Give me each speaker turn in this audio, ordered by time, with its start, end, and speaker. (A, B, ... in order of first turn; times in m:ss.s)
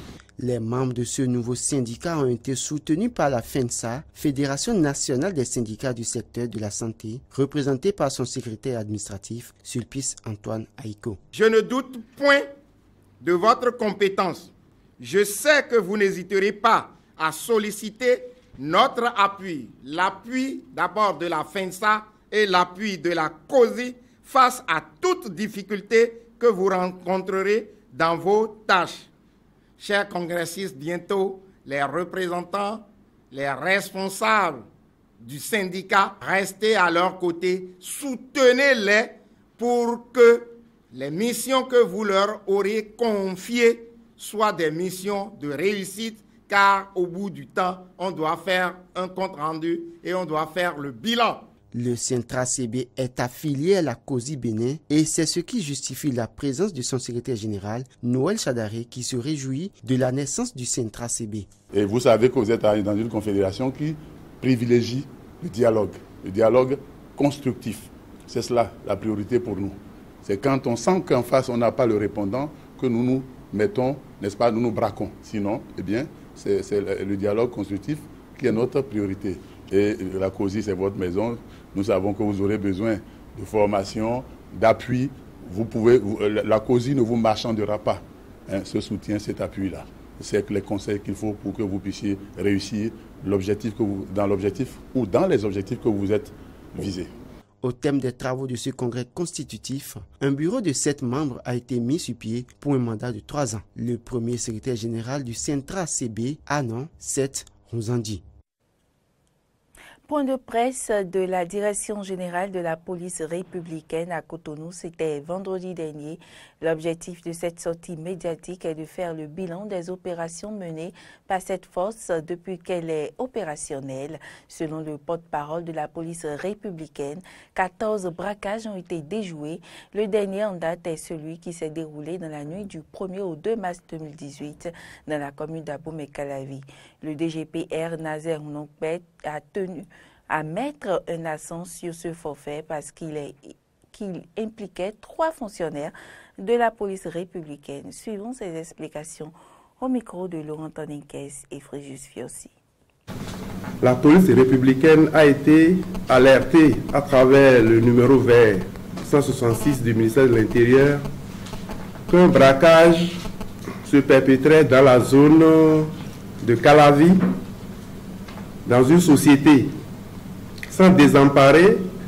0:00.4-0:11.2 A
0:11.4-0:12.4 B
0:13.2-0:14.5 B
0:15.0-0:29.0 B
0:29.8-0:34.6 B
0:35.3-0:39.0 B
0:39.6-0:40.4 B
0:41.0-0:51.4 B
0:51.7-1:01.5 A
1:01.7-1:37.1 C
1:37.6-1:48.2 A
1:50.1-2:32.5 D
2:33.8-2:41.0 E
2:42.1-2:43.2 E
2:43.9-2:45.9 E
2:46.4-2:47.2 E
2:48.7-2:49.7 E
2:50.7-2:51.8 E